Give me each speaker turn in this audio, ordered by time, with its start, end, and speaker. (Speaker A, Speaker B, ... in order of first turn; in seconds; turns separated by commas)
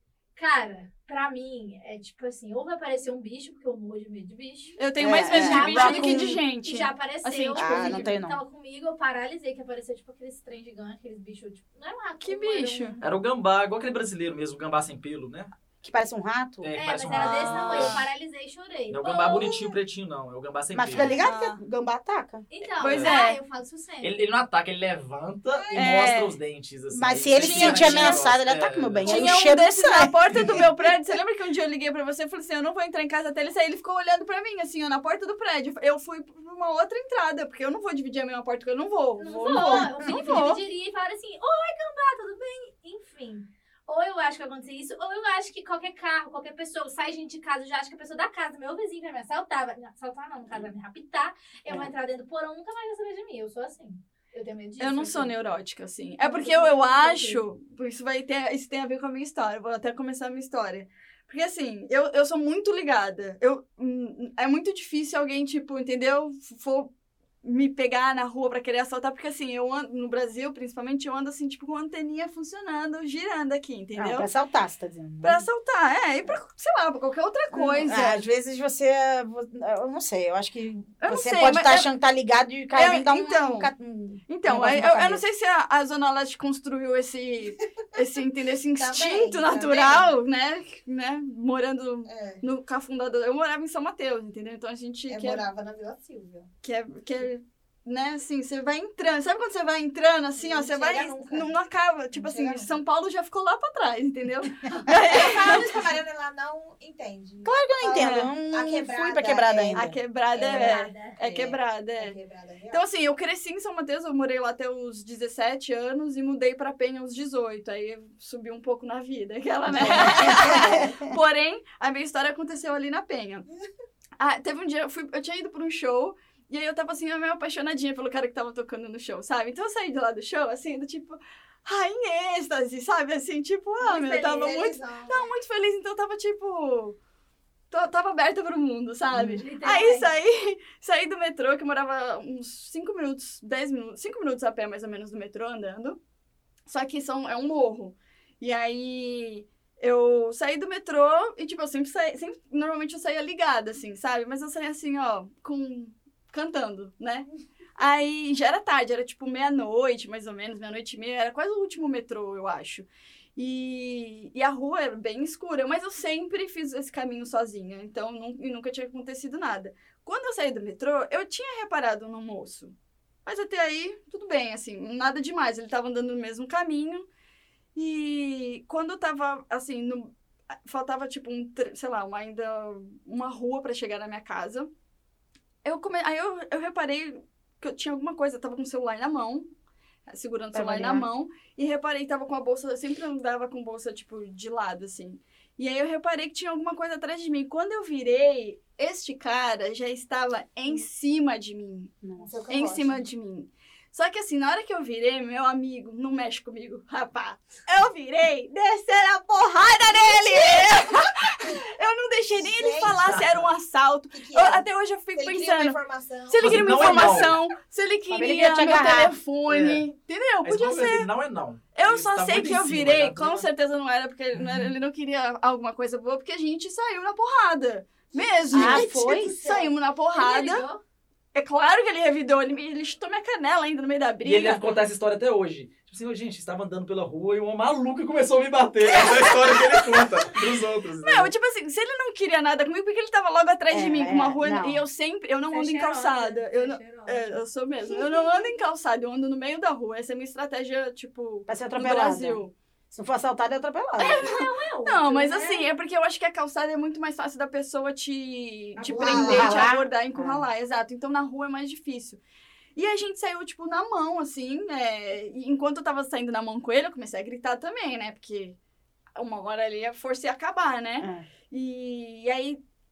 Speaker A: 0.4-13.1, Speaker B: 4.8-8.1, Speaker C: 5.0-6.4, Speaker C: 7.6-8.4, Speaker B: 12.2-13.0, Speaker D: 13.0-15.5, Speaker C: 15.8-16.7, Speaker D: 16.6-18.1, Speaker A: 16.7-19.8, Speaker B: 17.1-18.0, Speaker D: 18.9-21.2, Speaker C: 20.7-22.4, Speaker B: 21.0-21.6, Speaker A: 22.5-24.2, Speaker B: 22.8-23.4, Speaker D: 22.8-23.1, Speaker D: 24.0-29.3, Speaker E: 25.5-26.1, Speaker B: 25.7-26.4, Speaker C: 26.9-30.7, Speaker B: 27.4-28.3, Speaker B: 29.1-40.6, Speaker A: 39.2-55.4, Speaker C: 39.2-40.2, Speaker B: 54.8-66.9, Speaker A: 56.2-57.4, Speaker B: 67.4-74.3, Speaker C: 74.0-75.5, Speaker B: 75.2-78.2, Speaker C: 77.5-85.2, Speaker B: 81.0-81.9, Speaker B: 82.7-83.7, Speaker B: 84.3-95.4, Speaker E: 88.8-90.1, Speaker E: 92.1-92.4, Speaker E: 95.1-96.5, Speaker B: 96.6-105.8, Speaker E: 100.4-101.5, Speaker E: 102.1-102.8, Speaker E: 105.1-112.8, Speaker C: 107.5-110.0, Speaker B: 108.0-108.3, Speaker B: 109.7-112.2, Speaker A: 110.4-111.2, Speaker B: 112.7-123.5, Speaker C: 119.7-121.1, Speaker E: 120.2-120.8, Speaker B: 124.2-137.0, Speaker E: 133.8-135.3, Speaker B: 137.7-146.0, Speaker A: 139.2-140.1, Speaker B: 146.7-172.7, Speaker B: 173.3-177.1, Speaker B: 177.8-180.1, Speaker B: 180.7-184.7, Speaker B: 185.6-189.5, Speaker B: 190.1-201.9, Speaker C: 190.5-191.1, Speaker C: 202.0-202.3, Speaker E: 202.2-203.0, Speaker B: 202.5-221.1, Speaker E: 209.8-211.7, Speaker E: 212.3-213.2, Speaker D: 212.9-213.5, Speaker E: 214.1-217.3, Speaker D: 216.4-217.4, Speaker C: 218.1-219.2, Speaker D: 219.5-219.9, Speaker D: 220.4-223.5, Speaker B: 221.7-230.7, Speaker E: 228.1-229.7, Speaker C: 228.5-229.3, Speaker A: 230.1-230.8, Speaker B: 231.3-234.7, Speaker D: 234.2-241.3, Speaker B: 239.0-239.7, Speaker B: 241.0-252.5, Speaker C: 243.7-244.8, Speaker A: 245.5-247.4, Speaker C: 251.5-254.2, Speaker A: 254.0-255.7, Speaker B: 254.0-262.2, Speaker E: 258.8-259.6, Speaker C: 259.0-260.5, Speaker B: 262.8-268.6, Speaker B: 269.2-272.6, Speaker C: 271.0-271.3